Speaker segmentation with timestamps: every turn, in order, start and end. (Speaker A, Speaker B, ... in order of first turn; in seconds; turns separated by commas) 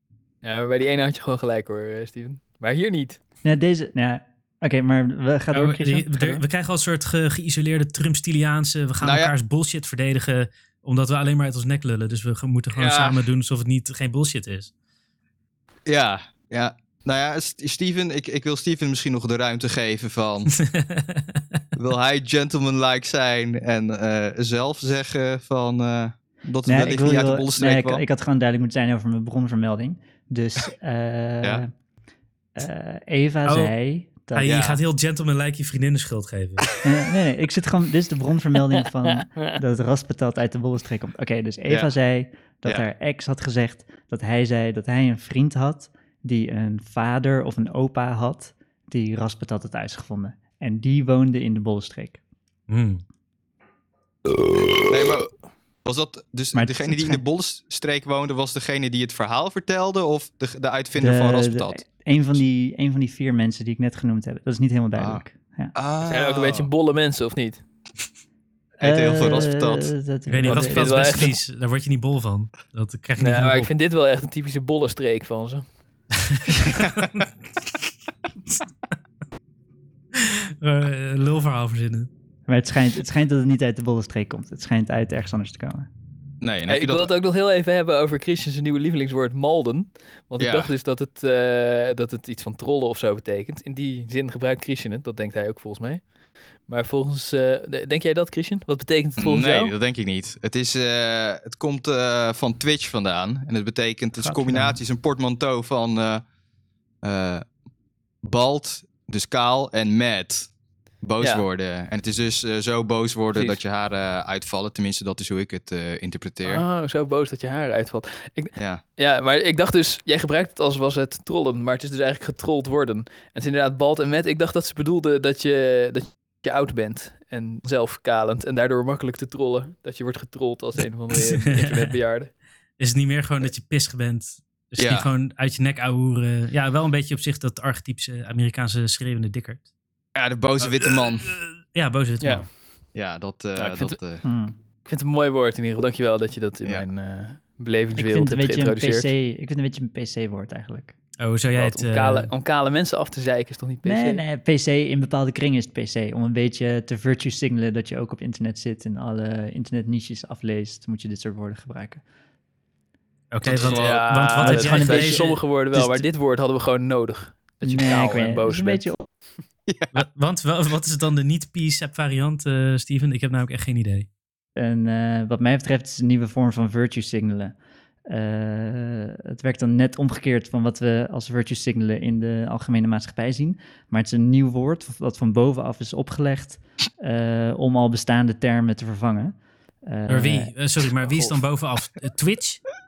Speaker A: 0.4-3.2, Speaker B: 3.4-6.4, Speaker C: 5.5-14.7, Speaker D: 9.0-9.3, Speaker D: 12.7-13.2, Speaker D: 15.8-20.5, Speaker C: 20.6-21.4, Speaker D: 21.8-28.0, Speaker B: 26.6-31.7, Speaker B: 32.5-34.6, Speaker C: 33.5-33.7, Speaker C: 34.3-36.7, Speaker D: 34.4-34.8, Speaker B: 36.8-52.2, Speaker C: 52.7-53.0, Speaker D: 54.7-55.3, Speaker D: 55.8-61.8, Speaker B: 56.5-57.2, Speaker B: 61.0-65.7, Speaker D: 65.0-65.2, Speaker D: 65.7-66.7, Speaker A: 66.0-67.6, Speaker D: 68.8-69.9, Speaker B: 68.8-71.3, Speaker C: 70.3-73.7, Speaker A: 70.4-71.3, Speaker A: 73.2-75.6, Speaker C: 76.3-77.1, Speaker C: 80.1-82.1, Speaker B: 82.5-85.9, Speaker D: 86.4-87.1, Speaker A: 86.7-96.0, Speaker D: 90.4-90.7, Speaker A: 96.7-99.7, Speaker D: 99.2-106.2, Speaker D: 107.0-107.5, Speaker D: 108.2-110.5, Speaker D: 111.0-116.6, Speaker A: 111.2-111.5, Speaker A: 113.3-113.6, Speaker A: 116.4-132.3, Speaker D: 118.5-118.8, Speaker C: 131.1-131.9, Speaker C: 132.8-139.6, Speaker D: 134.8-135.1, Speaker D: 140.1-141.3, Speaker C: 141.4-142.5, Speaker A: 142.2-142.5, Speaker D: 142.9-144.2, Speaker A: 143.6-144.0, Speaker B: 144.2-144.6, Speaker A: 144.8-149.1, Speaker B: 147.9-150.9, Speaker C: 151.2-152.3, Speaker A: 151.5-154.2, Speaker B: 153.8-162.0, Speaker C: 163.3-165.4, Speaker D: 163.4-164.1, Speaker A: 163.6-168.8, Speaker B: 164.4-166.0, Speaker B: 167.6-169.0, Speaker D: 169.7-170.0, Speaker C: 169.9-174.1, Speaker B: 174.6-177.5, Speaker B: 178.1-190.5, Speaker C: 190.1-192.6